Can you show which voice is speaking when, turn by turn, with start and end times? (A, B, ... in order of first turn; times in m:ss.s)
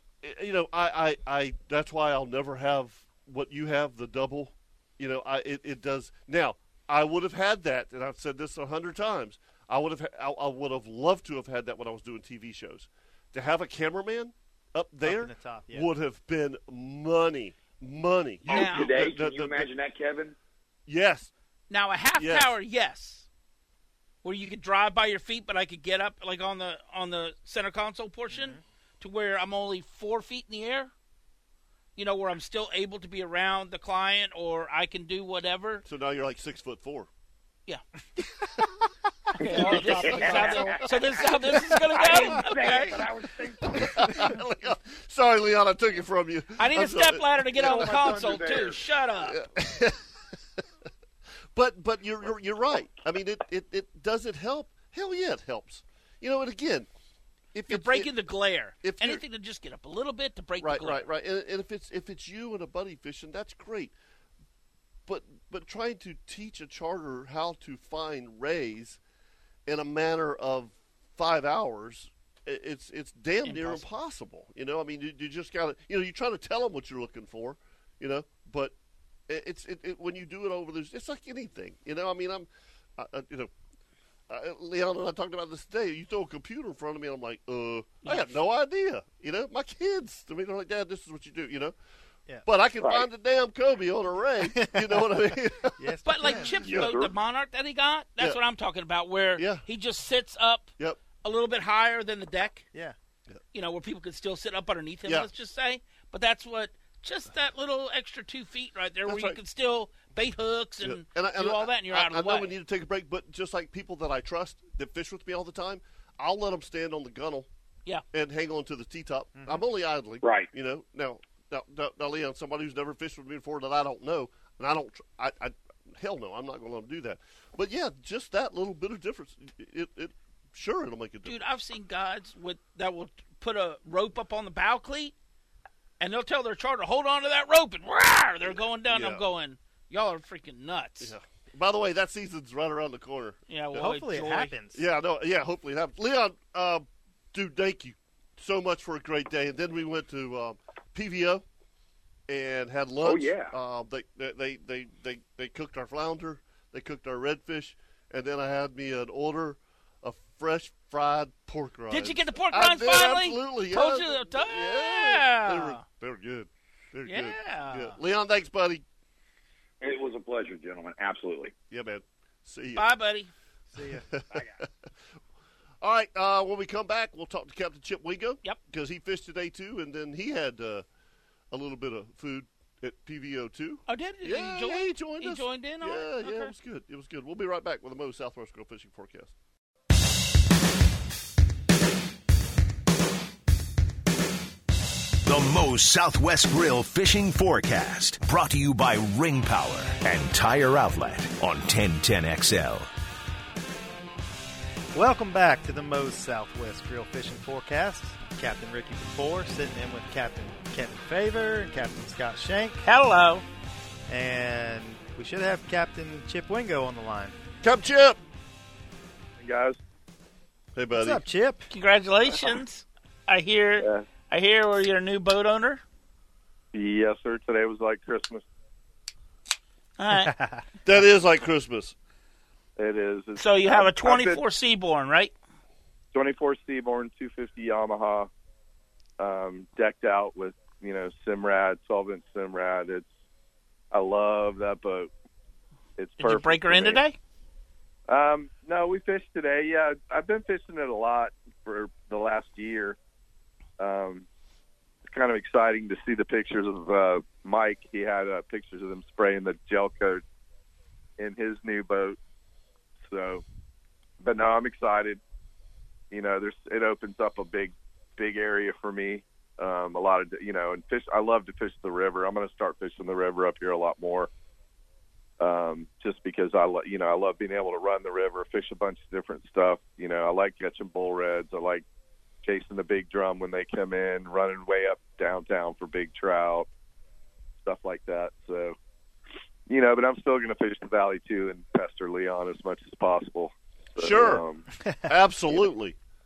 0:00.2-0:19.7 A
0:15.0-0:15.9 B
0:18.5-0:20.4 C
0:18.5-0:19.0 D
0:20.9-0:21.3 A
0:21.7-0:23.3 D
0:22.2-0:22.5 A
0:24.2-0:30.9 D
0:28.3-0:28.6 B
0:32.0-0:35.8 D
0:35.8-0:37.1 A
0:38.4-0:38.9 B
0:39.4-0:43.1 D
0:39.4-0:41.4 C
0:39.7-0:40.9 A
0:41.9-0:44.1 C
0:43.6-0:48.4 A
0:46.6-0:49.4 D
0:47.6-0:48.8 C
0:49.2-0:50.1 A
0:51.6-0:56.9 A
0:57.5-0:58.1 A
0:57.7-1:01.1 D
0:58.8-0:59.2 A
1:00.6-1:03.9 A
1:05.1-1:09.0 A
1:09.7-1:18.7 A
1:13.4-1:13.9 D
1:19.3-1:23.5 A
1:24.3-1:31.8 A
1:28.0-1:28.4 D
1:32.5-1:37.0 A
1:34.5-1:36.6 B
1:36.1-1:40.7 D
1:36.7-1:37.1 C
1:39.4-1:39.6 A
1:41.2-1:42.6 D
1:43.5-1:52.5 D
1:49.1-1:49.4 A
1:50.8-1:57.5 A
1:58.1-2:11.4 A
2:00.2-2:00.5 C
2:11.2-2:15.1 D
2:16.0-2:21.1 D
2:18.4-2:19.2 A
2:21.0-2:23.9 A
2:23.5-2:24.5 D
2:23.8-2:24.8 B
2:24.7-2:31.4 A
2:32.3-2:48.8 A
2:33.0-2:33.5 C
2:41.9-2:45.8 D
2:47.1-2:48.0 D
2:49.8-2:51.5 C
2:51.7-2:52.9 A
2:52.8-2:53.3 D
2:53.7-2:54.1 B
2:54.1-2:54.6 A
2:55.8-3:00.8 A
3:01.5-3:09.3 A
3:03.9-3:06.5 D
3:15.2-3:22.9 E
3:24.9-3:32.8 B
3:32.8-3:33.4 D
3:34.1-3:37.4 B
3:37.6-3:38.2 A
3:39.4-3:39.8 F
3:40.8-3:41.2 A
3:40.9-3:41.7 B
3:41.7-3:45.8 D
3:43.8-3:44.1 F
3:46.7-3:48.4 F
3:50.0-3:50.3 D
3:50.1-3:50.6 B
3:50.8-3:52.0 A
3:52.8-3:54.4 F
3:53.4-3:55.3 D
3:56.1-3:58.3 F
3:59.2-4:03.1 F
4:03.9-4:05.1 F
4:06.0-4:07.0 F
4:06.2-4:07.2 D
4:08.1-4:13.0 F
4:13.8-4:14.3 F
4:15.1-4:20.2 F
4:21.2-4:22.2 F
4:23.1-4:23.4 F
4:24.2-4:25.2 F
4:26.1-4:34.3 F
4:35.4-4:41.8 F
4:42.4-4:46.7 F
4:47.6-4:48.8 F
4:49.7-4:54.7 F
4:54.0-4:54.4 A
4:54.8-4:55.1 B
4:55.0-4:56.0 A